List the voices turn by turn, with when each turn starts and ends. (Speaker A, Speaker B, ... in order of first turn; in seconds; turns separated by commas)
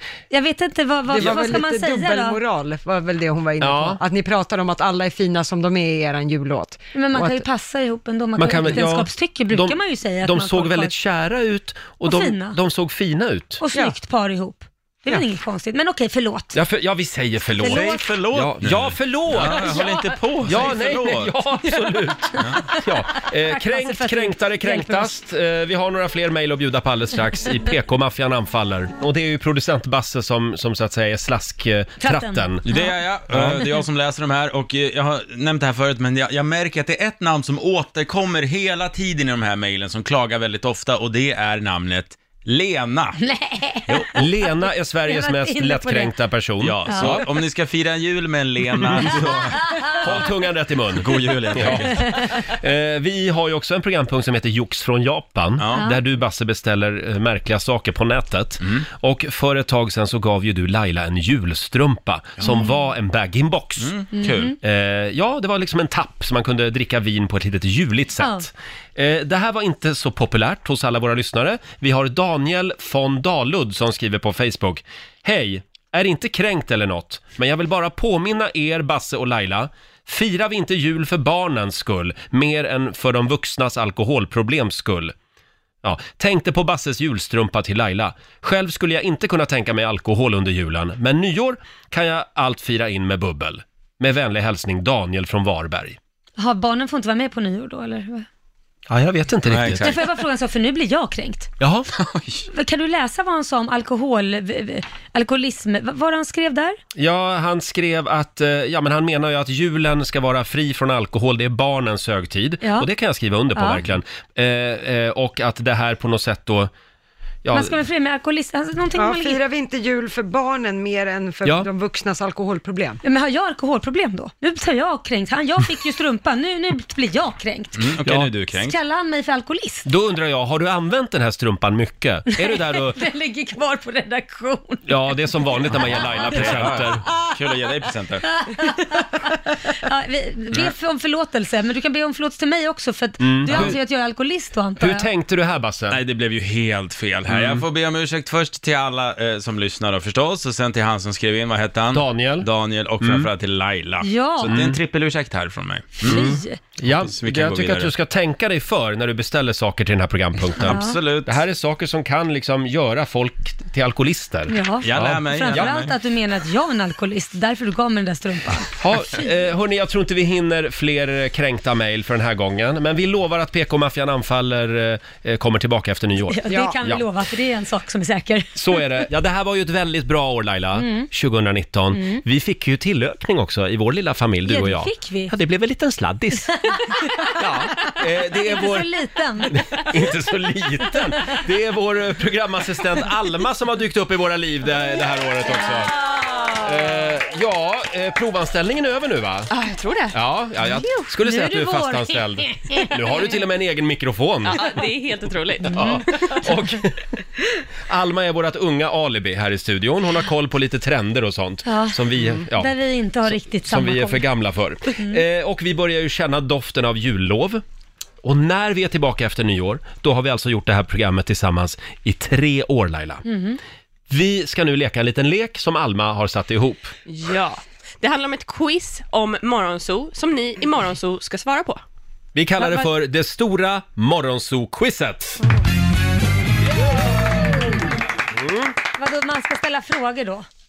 Speaker A: 0.3-2.4, Speaker B: 1.1-7.4, Speaker C: 1.2-1.6, Speaker C: 3.6-4.0, Speaker A: 6.9-10.9, Speaker C: 8.4-13.6, Speaker B: 8.6-8.9, Speaker A: 12.0-12.6, Speaker A: 13.6-16.6, Speaker C: 16.5-19.8, Speaker D: 17.6-21.3, Speaker A: 17.6-18.0, Speaker C: 20.4-32.7, Speaker A: 23.5-25.2, Speaker A: 32.0-33.0, Speaker D: 32.6-43.2, Speaker C: 33.3-33.6, Speaker A: 43.2-46.1, Speaker C: 44.1-47.2, Speaker D: 46.6-50.3, Speaker A: 46.9-47.2, Speaker C: 48.8-49.1, Speaker C: 50.0-64.0, Speaker D: 50.9-52.1, Speaker D: 55.6-55.9, Speaker A: 62.4-62.7, Speaker D: 63.8-64.5, Speaker A: 64.1-64.5, Speaker C: 64.6-85.1, Speaker C: 85.8-96.0, Speaker A: 96.4-98.2, Speaker C: 98.9-99.9, Speaker D: 99.5-100.0, Speaker A: 99.8-101.5, Speaker C: 101.6-101.9, Speaker D: 102.0-102.5, Speaker A: 102.5-106.8, Speaker C: 107.0-116.7, Speaker A: 112.6-112.9, Speaker A: 113.5-113.8, Speaker C: 117.4-117.7, Speaker A: 117.5-119.4, Speaker B: 118.9-123.0, Speaker A: 123.0-127.8, Speaker D: 127.8-128.8, Speaker C: 128.0-128.3, Speaker A: 128.5-129.9, Speaker C: 129.8-133.0, Speaker A: 132.3-136.9, Speaker C: 134.9-137.0, Speaker D: 135.8-138.3, Speaker A: 138.3-145.1, Speaker C: 143.2-143.8, Speaker C: 144.8-146.0, Speaker D: 145.9-156.3, Speaker C: 147.3-147.6, Speaker C: 151.9-152.5, Speaker C: 153.0-153.3, Speaker A: 154.0-154.5, Speaker C: 154.5-154.8, Speaker A: 156.0-156.6, Speaker C: 156.1-165.8, Speaker D: 156.9-157.9, Speaker D: 160.6-161.4, Speaker A: 160.7-161.0, Speaker A: 164.5-168.8, Speaker D: 164.8-165.9, Speaker C: 168.8-177.0, Speaker A: 176.3-179.1, Speaker B: 176.5-176.8, Speaker C: 178.6-186.5, Speaker A: 180.7-181.1, Speaker A: 181.9-182.2, Speaker A: 184.4-185.3, Speaker A: 186.6-189.8, Speaker C: 187.3-188.9, Speaker C: 189.5-199.5, Speaker A: 195.5-196.1, Speaker E: 196.3-196.6, Speaker E: 199.5-200.2, Speaker C: 200.1-204.6, Speaker A: 200.8-203.3, Speaker E: 204.5-206.3, Speaker C: 205.6-206.9, Speaker A: 205.7-206.5, Speaker C: 207.9-212.7, Speaker A: 211.6-214.2, Speaker C: 213.2-217.6, Speaker C: 218.2-223.2, Speaker A: 223.2-223.6, Speaker C: 224.1-226.9, Speaker E: 227.1-231.8, Speaker C: 232.3-235.4, Speaker E: 232.6-232.9, Speaker C: 238.3-238.7, Speaker A: 238.9-240.4